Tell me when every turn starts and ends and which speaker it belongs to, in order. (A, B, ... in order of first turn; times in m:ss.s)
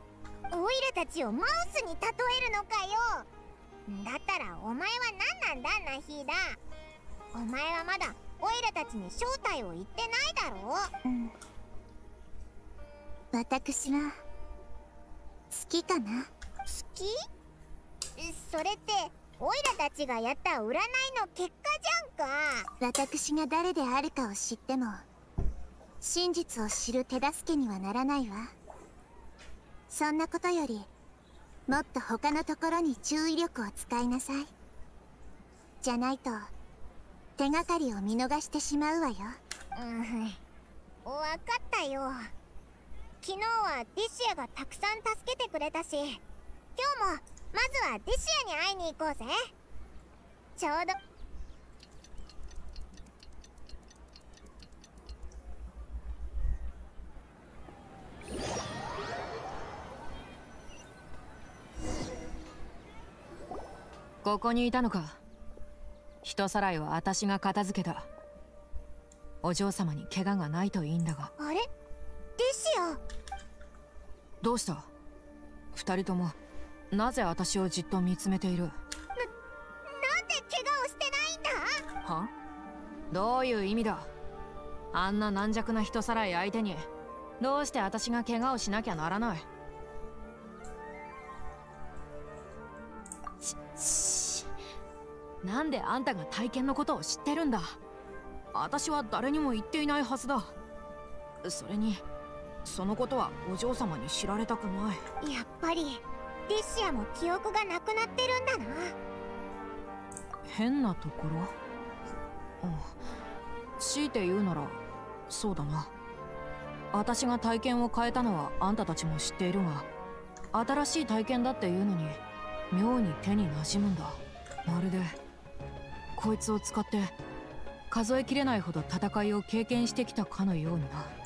0:00.5-0:03.3 A
0:03.9-0:06.6 A
0:07.3-0:10.9 A
0:11.0-0:11.3 B
0:13.3-0:14.2 B
0:15.5-0:16.3 B
0:16.7-0:17.1 A
0:18.2-0:22.7 A
0:22.8-0:25.0 B
0:26.0-0:28.5 B
0:29.9-0:30.9 B
0:31.7-0:34.5 B
0:35.8-0:36.5 B
0:37.4-0:39.4 B
0:39.7-0:40.4 A
0:41.0-0:42.3 A
0:43.2-0:46.2 A
0:46.8-0:49.5 A
0:50.6-0:50.9 A
1:04.2-1:05.2 C
1:06.2-1:08.1 C
1:09.4-1:11.3 C
1:11.4-1:11.7 A
1:12.4-1:13.0 A
1:14.4-1:14.9 C
1:15.7-1:16.3 C
1:16.9-1:18.7 C
1:19.8-1:21.8 A
1:22.0-1:22.3 C
1:23.1-1:24.1 C
1:24.9-1:26.9 C
1:27.4-1:29.4 C
1:33.4-1:34.5 C
1:35.4-1:37.8 C
1:38.5-1:40.5 C
1:41.4-1:42.0 C
1:42.6-1:45.0 C
1:45.2-1:48.9 A
1:50.5-1:51.5 C
1:52.6-1:53.0 C
1:53.8-1:55.9 C
1:56.9-1:59.9 C
2:00.5-2:02.2 C
2:02.7-2:05.1 C
2:06.2-2:07.1 C
2:07.9-2:11.1 C